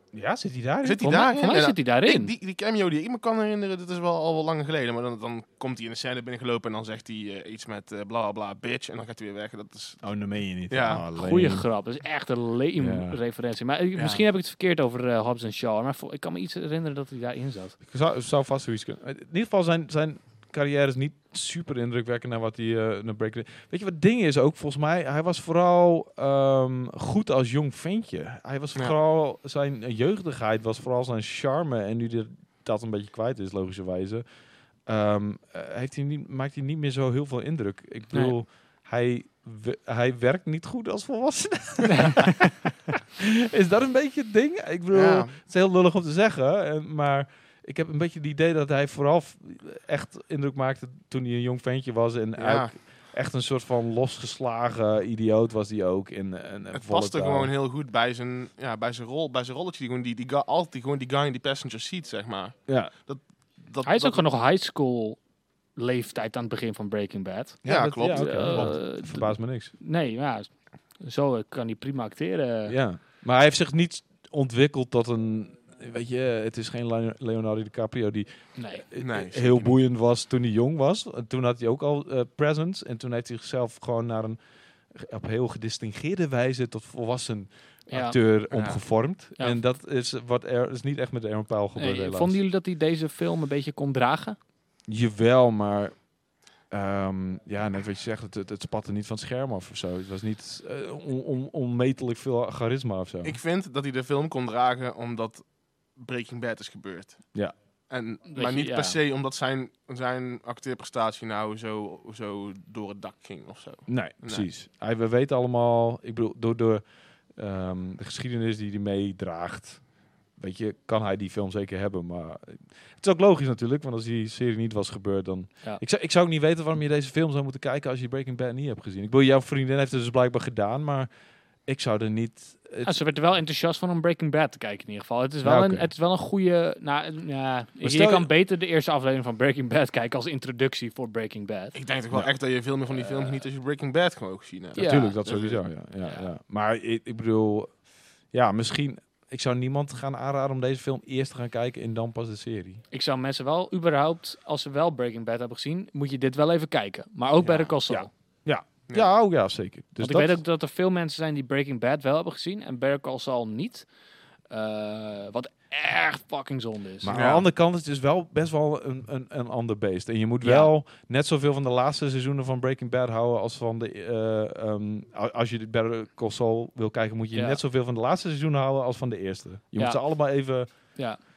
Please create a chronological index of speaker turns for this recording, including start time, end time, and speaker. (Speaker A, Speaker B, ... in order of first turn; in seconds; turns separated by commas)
Speaker A: 0.1-1.1, Speaker B: 0.8-10.0, Speaker C: 1.0-2.3, Speaker A: 10.0-11.7, Speaker B: 10.7-11.0, Speaker C: 11.1-17.8, Speaker A: 12.8-13.2, Speaker B: 13.9-14.2, Speaker A: 17.8-34.2, Speaker A: 34.9-57.5, Speaker C: 41.9-42.3, Speaker B: 44.9-45.3, Speaker B: 52.4-52.7, Speaker B: 56.7-64.2, Speaker A: 62.7-62.9, Speaker C: 63.8-65.2, Speaker C: 65.8-72.8, Speaker A: 67.6-69.7, Speaker B: 67.6-68.7, Speaker A: 72.7-84.4, Speaker C: 78.6-78.8, Speaker B: 79.0-79.8, Speaker A: 84.9-92.4, Speaker C: 87.9-88.2, Speaker B: 88.5-88.8, Speaker C: 91.8-94.4, Speaker A: 94.9-96.1, Speaker A: 96.7-103.4, Speaker B: 103.2-105.4, Speaker B: 105.9-107.3, Speaker B: 107.9-114.5, Speaker C: 108.3-109.0, Speaker A: 113.9-116.8, Speaker A: 117.3-119.8, Speaker A: 120.4-131.1, Speaker A: 131.7-132.9, Speaker C: 132.8-141.8, Speaker A: 135.4-135.9, Speaker A: 137.8-138.3, Speaker B: 141.7-145.6, Speaker C: 142.9-143.4, Speaker C: 144.8-145.2, Speaker A: 144.8-147.7, Speaker A: 148.3-152.8, Speaker C: 152.9-158.1, Speaker B: 157.4-157.7, Speaker A: 157.9-160.4, Speaker C: 160.0-163.8, Speaker C: 164.5-167.1, Speaker A: 167.0-180.7, Speaker B: 167.1-167.4, Speaker C: 170.4-170.7